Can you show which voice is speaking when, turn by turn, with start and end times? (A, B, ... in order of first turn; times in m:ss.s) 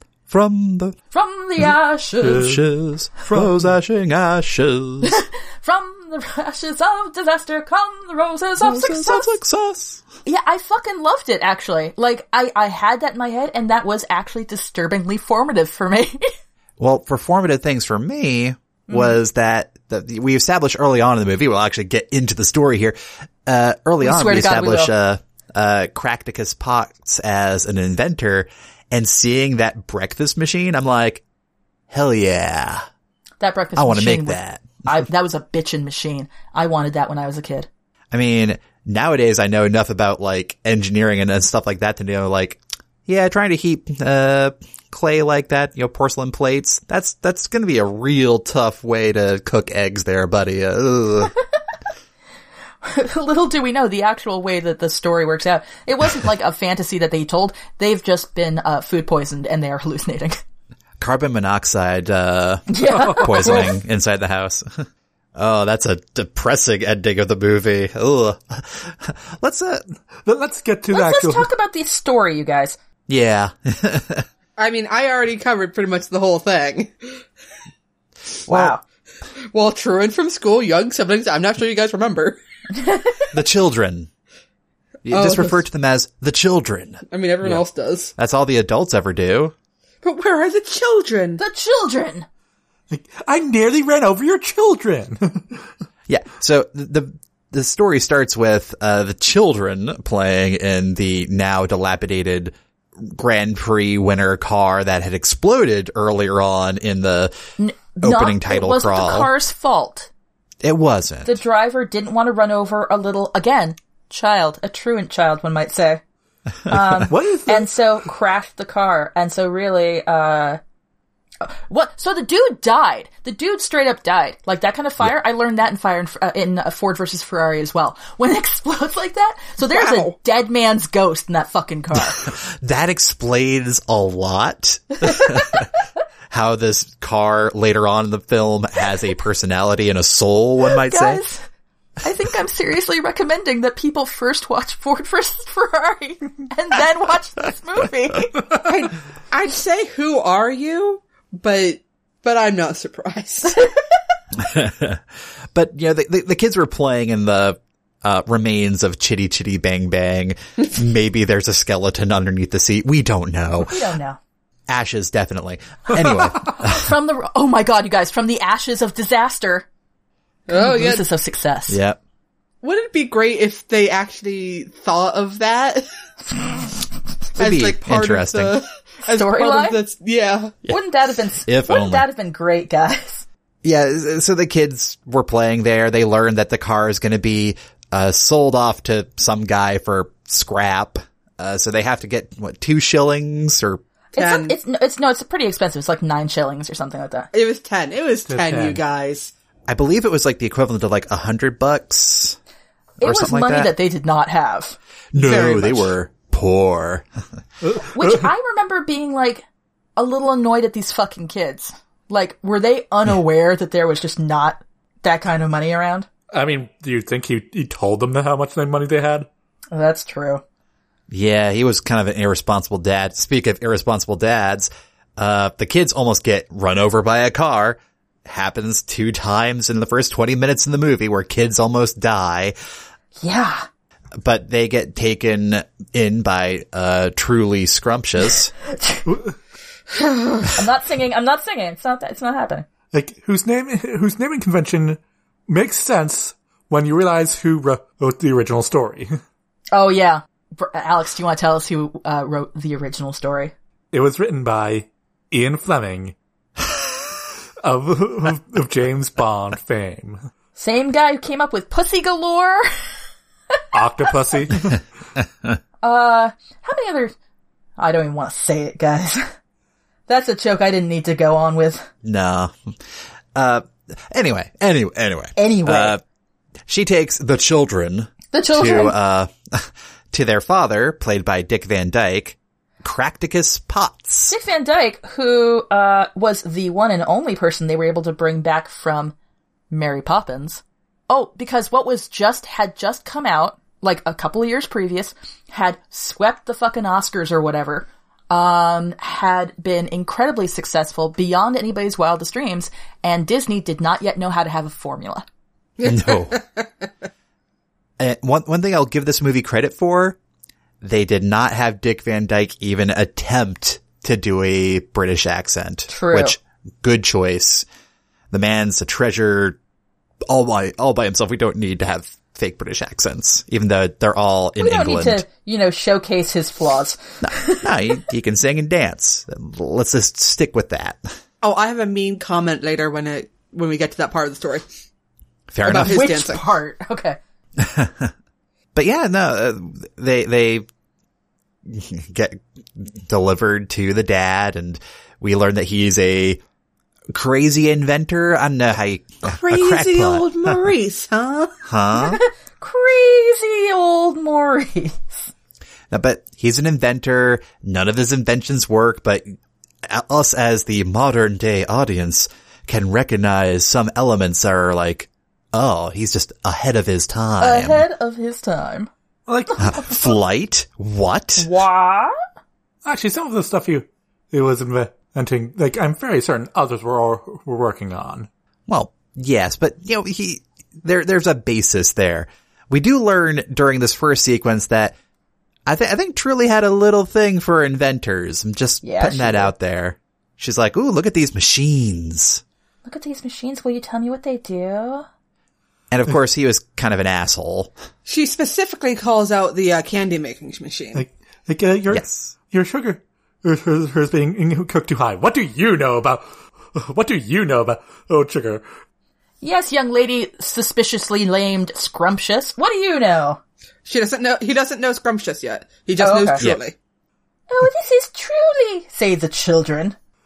0:00.3-0:01.0 A
0:01.1-0:02.5 B
0:02.2-0:02.6 C
0:02.3-0:05.2 A
0:03.2-0:03.7 C
0:05.0-0:09.4 B
0:08.6-0:10.0 A
0:10.2-0:16.3 B
0:16.8-0:31.2 A
0:18.9-0:19.2 B
0:24.0-0:24.9 B
0:31.9-0:32.8 A
0:33.4-0:37.7 B
0:33.8-0:34.9 A
0:38.1-0:51.3 A
0:52.8-1:00.4 B
1:01.0-1:04.8 A
1:02.7-1:03.8 B
1:02.9-1:03.7 C
1:05.4-1:09.8 A
1:10.2-1:11.5 C
1:10.9-1:12.8 B
1:13.1-1:14.2 A
1:14.6-1:16.9 D
1:18.5-1:18.8 B
1:19.5-1:22.4 D
1:22.8-1:23.2 B
1:23.3-1:24.1 A
1:25.0-1:27.6 A
1:25.1-1:25.6 D
1:27.1-1:28.1 D
1:28.2-1:29.5 A
1:30.0-1:31.4 D
1:31.4-1:32.2 B
1:32.9-1:35.6 C
1:36.1-1:47.3 A
1:47.6-1:50.1 B
1:48.0-1:49.3 A
1:50.6-1:51.4 A
1:51.2-1:56.0 B
1:56.7-2:00.6 B
1:57.1-1:57.7 C
2:01.4-2:12.3 B
2:09.6-2:10.1 D
2:12.1-2:15.7 A
2:16.3-2:21.2 A
2:20.8-2:21.4 B
2:22.0-2:28.4 B
2:28.6-2:33.6 D
2:34.3-2:43.8 A
2:43.6-2:44.2 B
2:44.7-2:46.9 A
2:46.5-2:49.6 B
2:50.5-2:51.0 D
2:50.5-2:51.8 B
2:51.7-2:52.0 A
2:52.6-2:55.9 D
2:57.4-2:58.6 A
2:57.4-3:00.6 D
2:59.1-2:59.8 B
3:00.7-3:03.2 B
3:01.4-3:02.1 A
3:03.6-3:13.8 A
3:14.1-3:17.3 B
3:14.2-3:14.6 D
3:17.3-3:19.3 D
3:18.3-3:18.8 C
3:19.7-3:22.4 A
3:23.0-3:23.7 A
3:23.0-3:24.8 B
3:25.1-3:27.0 A
3:25.1-3:25.9 D
3:27.6-3:28.3 C
3:27.8-3:29.4 B
3:30.0-3:36.1 B
3:36.3-3:39.3 C
3:39.7-3:40.4 B
3:41.1-3:52.5 A
3:53.2-3:53.7 B
3:54.2-3:58.5 A
3:59.1-3:59.3 C
4:00.4-4:02.6 B
4:02.9-4:09.2 C
4:09.7-4:13.5 B
4:13.9-4:16.1 C
4:17.6-4:20.2 C
4:20.6-4:22.9 B
4:23.7-4:24.8 C
4:25.8-4:27.1 B
4:27.8-4:29.3 B
4:30.1-4:31.9 B
4:32.0-4:32.7 A
4:33.3-4:36.0 A
4:35.4-4:36.0 B
4:36.7-4:44.3 A
4:38.3-4:38.9 B
4:44.3-4:49.1 B
4:49.7-5:05.2 B
5:05.8-5:06.9 D
5:05.8-5:06.4 A
5:08.0-5:10.2 A
5:10.8-5:17.6 A
5:15.9-5:16.4 B
5:18.3-5:19.6 A
5:20.3-5:25.2 A
5:24.6-5:27.7 B
5:27.2-5:31.0 A
5:31.4-5:34.6 D
5:35.5-5:36.0 A
5:35.6-5:36.4 D
5:35.7-5:37.2 B
5:37.6-5:38.1 A
5:38.7-5:40.6 A
5:41.6-5:46.4 A
5:47.1-5:50.6 A
5:49.2-5:51.5 D
5:51.6-5:52.2 A
5:51.9-5:55.3 B
5:55.9-5:59.3 A
5:59.8-6:07.8 A
6:07.4-6:08.9 B
6:09.3-6:09.7 C
6:09.6-6:09.9 B
6:09.6-6:11.5 A
6:11.4-6:12.1 B
6:12.8-6:18.3 C
6:18.7-6:24.9 A
6:25.6-6:32.4 A
6:28.8-6:29.5 B
6:32.8-6:35.0 B
6:35.9-6:37.7 A
6:38.0-6:41.0 D
6:40.9-6:46.2 C
6:41.9-6:42.3 A
6:46.7-6:48.6 C
6:49.4-6:53.4 B
6:53.8-6:56.7 D
6:56.0-6:56.4 B
6:57.5-6:59.9 B